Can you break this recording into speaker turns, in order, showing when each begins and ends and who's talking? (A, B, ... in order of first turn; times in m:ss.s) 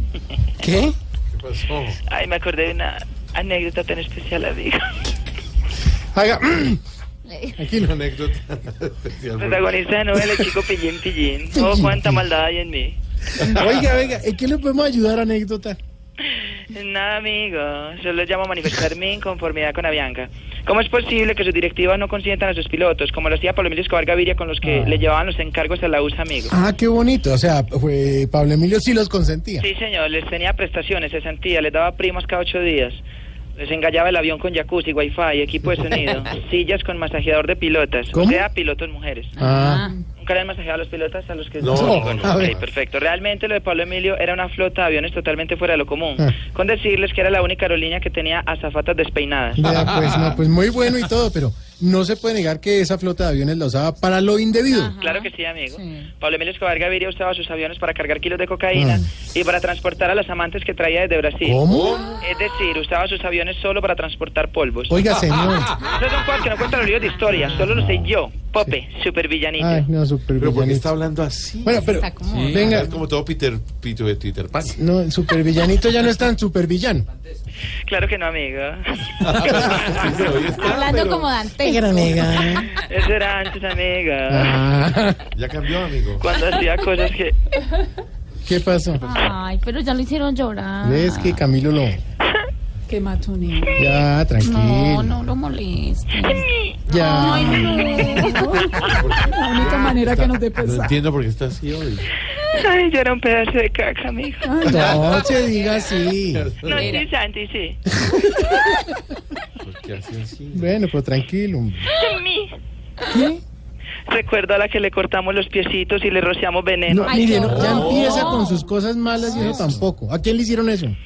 0:00.6-0:00.9 A
0:01.3-0:02.0 B
0:02.1-0:04.9 C
0:06.1-0:06.8 A
0:07.6-0:08.0 A
0:07.7-0:09.7 B
0:09.4-0:13.0 C
0:11.5-0:12.2 A
0:13.4-0:15.8 A
0:16.3-0:26.5 C
0:24.6-0:25.1 A
0:26.5-0:29.6 A
0:29.6-0:33.0 C
0:33.6-0:39.3 C
0:38.1-0:38.4 A
0:39.4-0:40.0 D
0:39.4-0:39.9 A
0:40.2-0:49.6 C
0:41.6-0:42.7 B
0:41.7-0:42.5 A
0:49.6-0:54.9 A
0:49.7-0:50.4 B
0:54.7-0:56.1 D
0:55.0-1:01.6 C
0:58.7-0:59.0 A
1:01.4-1:02.0 A
1:01.7-1:02.2 B
1:02.2-1:05.0 C
1:04.9-1:05.7 A
1:05.8-1:09.8 C
1:07.3-1:07.6 D
1:09.6-1:10.9 A
1:10.4-1:14.8 B
1:11.6-1:12.9 A
1:11.9-1:12.8 D
1:14.8-1:17.1 A
1:17.8-1:19.7 C
1:19.2-1:21.4 B
1:20.6-1:22.6 D
1:21.6-1:22.7 A
1:22.7-1:24.6 C
1:24.3-1:25.2 A
1:25.3-1:26.3 B
1:26.2-1:27.4 C
1:28.4-1:29.0 A
1:29.0-1:31.4 D
1:30.8-1:32.0 A
1:32.9-1:33.9 E
1:33.8-1:35.2 A
1:34.4-1:38.5 D
1:36.3-1:36.8 C
1:36.9-1:38.0 A
1:37.5-1:38.0 C
1:37.8-1:38.2 B
1:38.0-1:41.0 E
1:38.7-1:42.0 B
1:42.4-1:45.0 C
1:44.4-1:44.9 E
1:44.6-1:46.4 A
1:44.7-1:45.4 B
1:46.3-1:47.0 B
1:46.6-1:47.8 C
1:46.7-1:47.0 D
1:48.0-1:48.9 A
1:49.6-1:50.8 B
1:50.5-1:51.9 A
1:51.9-1:52.5 C
1:54.1-1:57.4 C
1:56.9-2:01.0 A
1:57.0-1:59.7 D
1:57.4-1:58.4 B
1:59.3-1:59.8 B